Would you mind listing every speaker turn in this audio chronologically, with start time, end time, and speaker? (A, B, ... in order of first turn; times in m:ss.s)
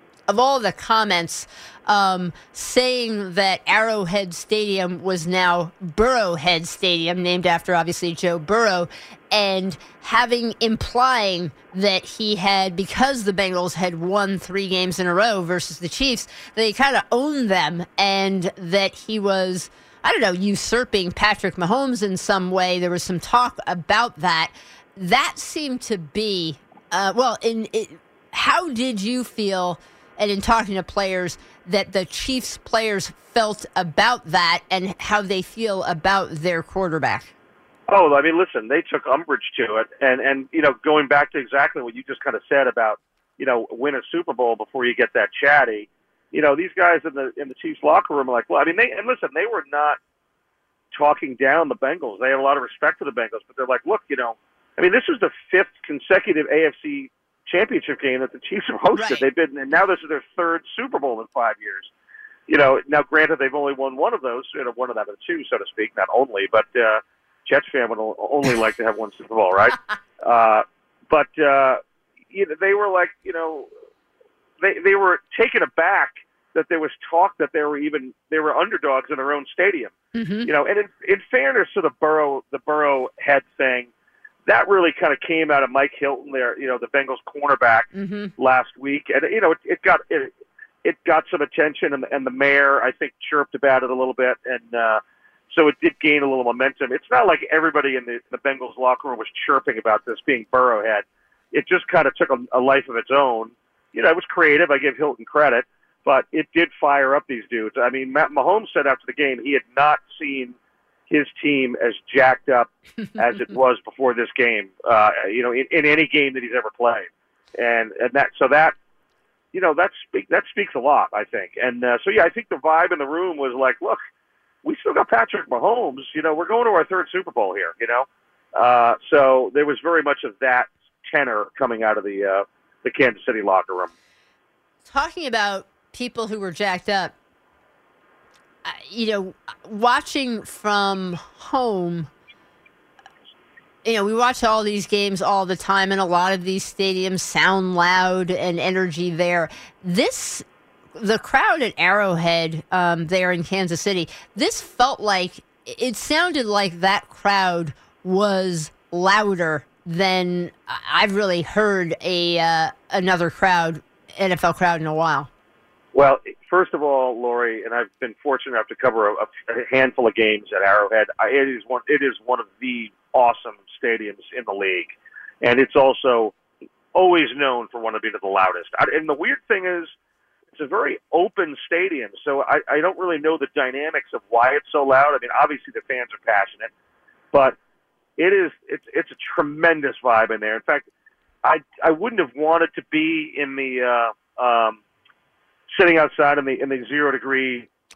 0:00.3-0:37.3 A
0:37.9-0:50.0 B
0:50.9-1:01.9 B
0:59.0-0:59.2 A
1:02.5-1:11.8 B
1:12.3-1:13.7 B
1:14.6-1:19.9 B
1:20.1-1:20.5 A
1:20.5-1:23.9 B
1:24.5-1:30.3 B
1:28.0-1:28.3 A
1:30.8-1:50.6 B
1:51.1-1:58.7 B
1:59.5-2:04.0 B
2:04.6-2:13.9 B
2:14.9-2:17.1 A
2:18.6-2:22.1 A
2:23.8-2:45.3 A
2:45.9-2:54.9 B
2:55.4-2:56.3 B
2:56.9-2:59.9 B
3:00.5-3:06.7 B
3:08.2-3:10.9 B
3:11.4-3:14.8 B
3:15.7-3:17.7 B